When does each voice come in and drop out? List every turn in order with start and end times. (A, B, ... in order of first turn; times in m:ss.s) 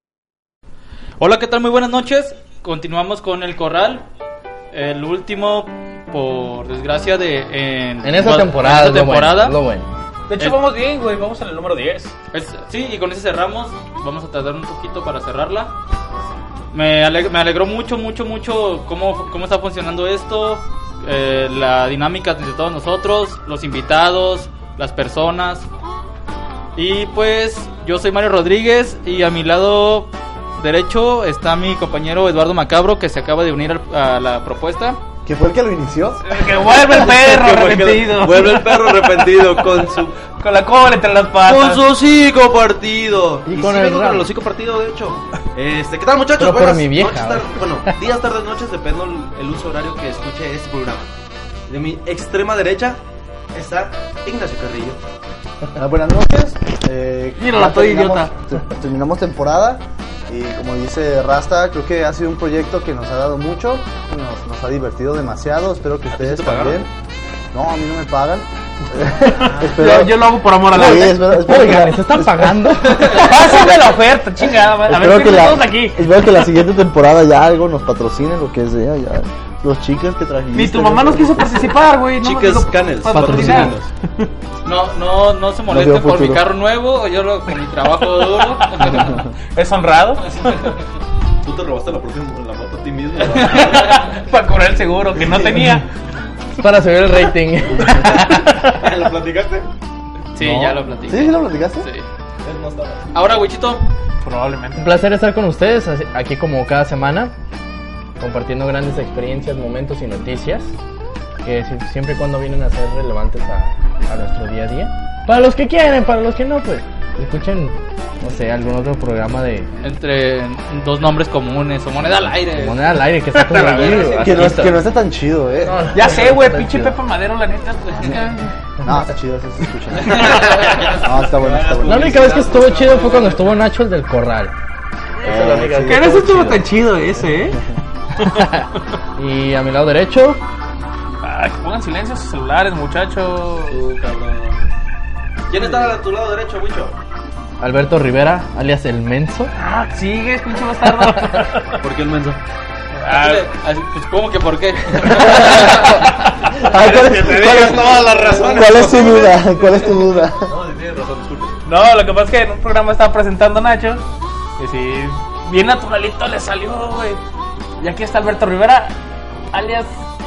0:01.2-0:04.0 A
0:04.7-0:09.6 A
0:08.0-0:09.9 B
0:10.3-0:12.2 C
0:12.3-0:15.7 A
0:16.7-0:25.7 A
0:26.8-0:35.0 A
0:35.2-0:36.2 D
0:36.2-0:39.6 C
0:36.6-0:40.1 E
0:40.3-0:41.8 C
0:41.4-0:51.1 E
0:43.4-0:44.3 B
0:46.4-0:48.0 B
0:51.7-0:53.0 E
0:53.5-0:55.0 E
0:55.8-1:06.9 D
0:57.4-0:58.3 C
1:06.1-1:06.8 E
1:07.5-1:12.9 D
1:09.8-1:11.2 C
1:10.7-1:13.3 B
1:13.0-1:16.0 C
1:14.9-1:21.7 D
1:20.5-1:23.8 C
1:22.2-1:23.9 E
1:23.1-1:23.8 B
1:24.6-1:29.2 A
1:25.7-1:26.4 D
1:28.3-1:30.7 C
1:31.4-1:34.0 E
1:33.4-1:35.9 C
1:36.6-1:38.5 B
1:37.8-1:38.2 E
1:38.3-1:38.9 C
1:38.8-1:39.7 E
1:40.4-1:42.1 A
1:40.4-1:40.7 B
1:41.1-1:41.9 D
1:42.4-1:43.2 E
1:43.1-1:43.8 A
1:44.2-1:44.9 C
1:44.8-1:47.3 B
1:48.2-1:50.7 B
1:51.4-1:59.7 B
1:59.8-2:02.9 A
2:02.5-2:04.9 B
2:03.3-2:04.5 C
2:04.1-2:06.0 D
2:05.6-2:07.0 B
2:05.9-2:08.5 C
2:08.8-2:12.4 D
2:10.0-2:13.4 E
2:10.1-2:10.6 C
2:11.9-2:14.5 B
2:15.2-2:16.7 B
2:15.2-2:16.5 D
2:15.9-2:17.6 C
2:19.2-2:20.4 B
2:21.2-2:23.8 C
2:23.6-2:24.6 E
2:25.5-2:26.9 E
2:27.6-2:29.5 B
2:29.6-2:31.8 C
2:31.8-2:32.4 E
2:33.0-2:35.8 A
2:33.0-2:33.4 C
2:35.2-2:36.1 C
2:36.7-2:38.4 C
2:36.7-2:40.5 D
2:36.8-2:39.9 E
2:40.4-2:41.6 E
2:41.7-2:44.0 C
2:44.6-2:47.2 C
2:47.8-2:48.9 C
2:49.5-2:49.9 C